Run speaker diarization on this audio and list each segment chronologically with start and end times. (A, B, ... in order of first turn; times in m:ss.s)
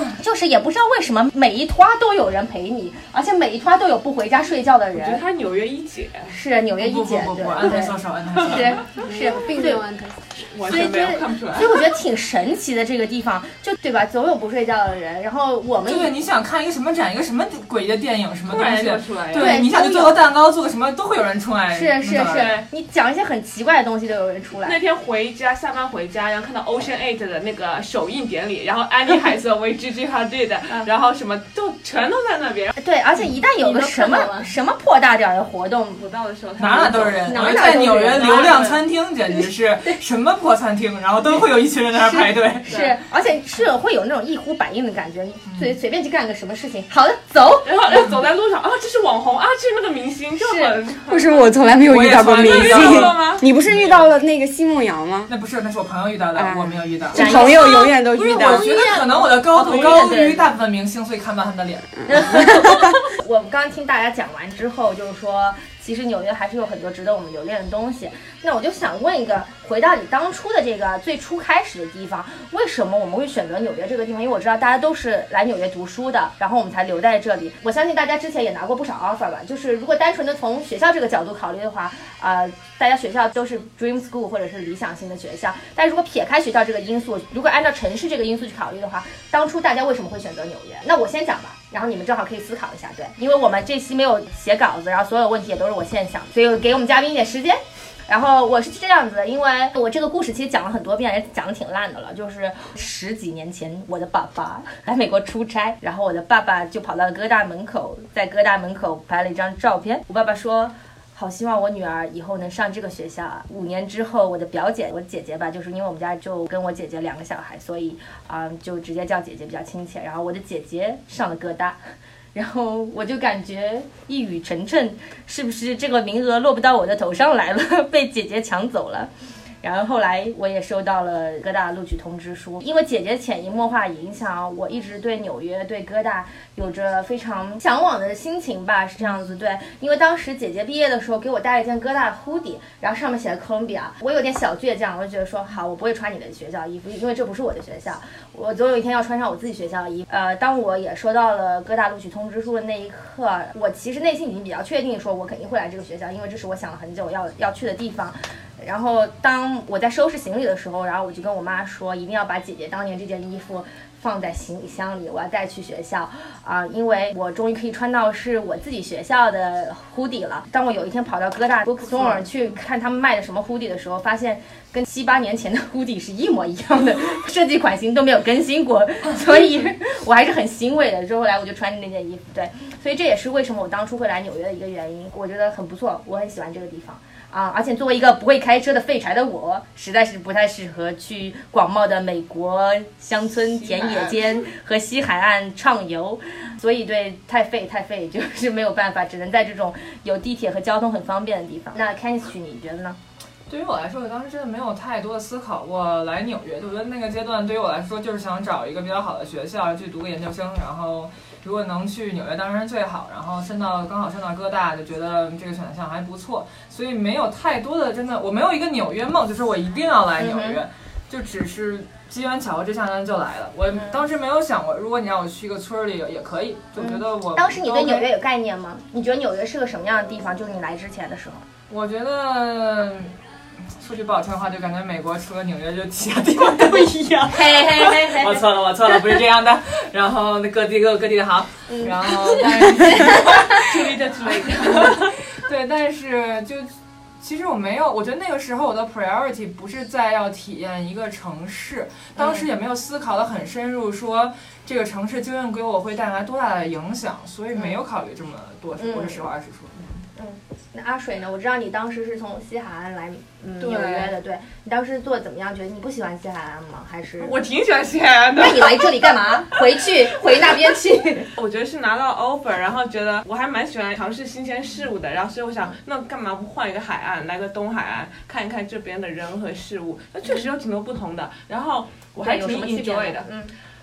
0:00.2-0:05.2 A
0:04.9-0:06.3 B
0:06.3-0:08.0 A
0:06.8-0:08.8 C
0:08.3-0:08.7 B
0:08.5-0:09.8 A
0:09.0-0:10.4 D
0:10.4-0:11.8 B
0:10.6-0:16.1 A
0:15.8-0:22.6 C
0:18.5-0:19.6 B
0:19.3-0:20.2 A
0:21.7-0:24.8 A
0:24.6-0:32.8 B
0:32.8-0:36.0 A
0:33.6-0:34.5 D
0:35.9-0:38.8 B
0:36.6-0:42.7 C
0:37.2-0:38.8 A
0:42.0-0:47.7 A
0:42.7-0:42.9 B
0:47.6-0:51.5 B
0:50.4-0:50.7 A
0:51.1-0:55.3 E
0:51.9-0:54.1 C
0:52.4-0:53.4 B
0:55.3-1:02.2 C
0:56.3-0:58.7 E
0:57.1-1:00.5 A
0:59.6-1:00.1 B
1:02.1-2:01.8 A
1:02.2-1:02.9 E
2:02.3-2:09.1 A
2:09.6-3:23.0 A
3:13.5-3:14.4 B
3:23.5-3:48.0 C
3:40.2-3:40.6 A
3:43.7-3:44.0 A
3:46.8-3:51.4 A
3:51.7-3:53.1 C
3:53.8-4:06.7 C
3:57.3-3:58.4 A
4:03.6-4:05.1 B
4:07.2-4:20.0 C
4:12.2-4:12.4 A
4:18.8-4:19.3 A
4:20.2-4:27.4 A
4:23.6-4:24.1 B
4:27.2-4:29.6 B
4:28.4-4:31.3 A
4:30.3-4:30.6 B
4:31.4-4:43.3 B
4:42.2-4:43.5 A